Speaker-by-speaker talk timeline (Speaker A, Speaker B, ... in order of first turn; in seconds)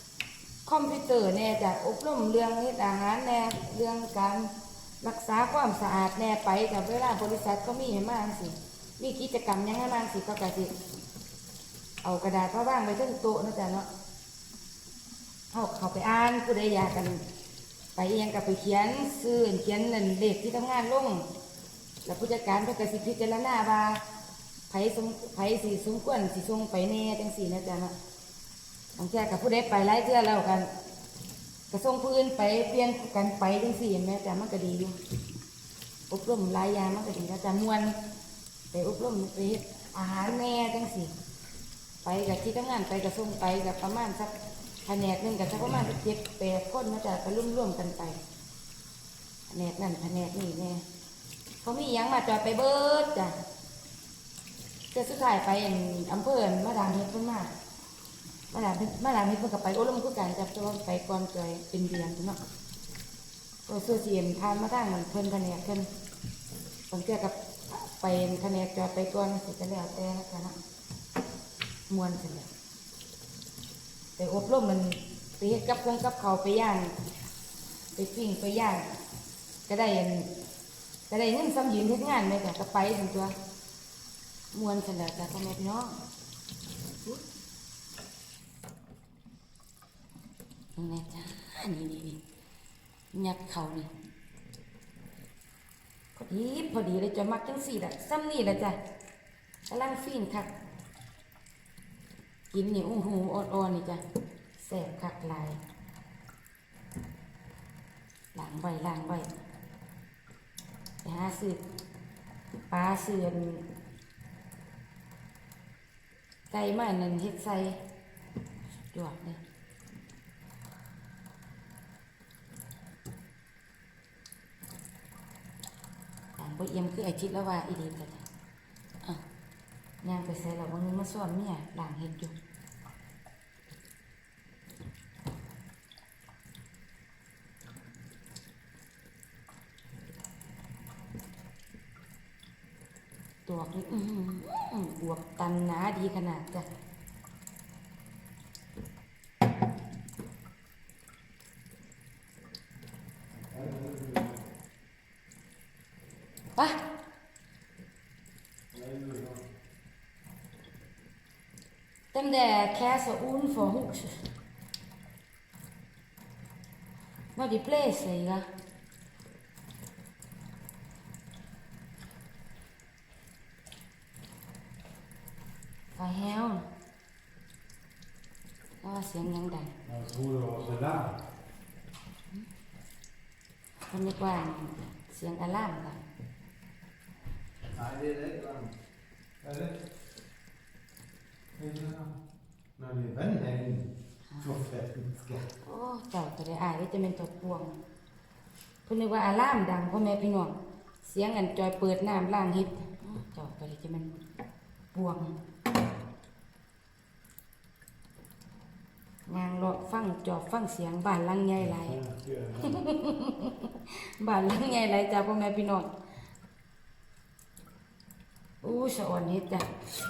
Speaker A: 0.6-10.7, 12.0-13.9, 15.5-17.2, 17.9-21.3, 22.0-24.0, 24.7-27.9, 28.9-30.7, 31.7-35.0, 36.1-38.0, 38.7-41.1, 42.0-48.2, 49.5-50.8, 51.6-53.4, 54.9-57.5, 58.5-62.4, 63.6-65.9, 66.9-70.6, 71.9-72.5, 74.2-76.9, 77.9-78.9, 79.7-80.3, 81.1-83.3, 84.5-86.0, 90.8-92.2, 93.1-93.9, 96.2-98.8, 99.7-100.5, 102.5-104.0, 104.6-105.6, 108.3-109.4, 111.0-111.6, 112.7-113.7, 116.5-117.8, 118.8-119.4, 126.4-128.2, 130.0-132.3, 143.4-146.7, 156.5-156.8, 162.1-164.3, 167.3-168.5, 175.9-176.7, 178.8-179.8, 183.9-186.0, 195.6-197.7, 198.8-204.1, 204.9-205.4, 209.3-212.0, 212.6-215.9, 218.6-219.7
Speaker B: 153.3-154.4, 158.7-159.4, 179.8-181.2, 187.7-188.7, 189.4-189.9, 191.6-192.2, 192.8-195.5, 211.6-212.8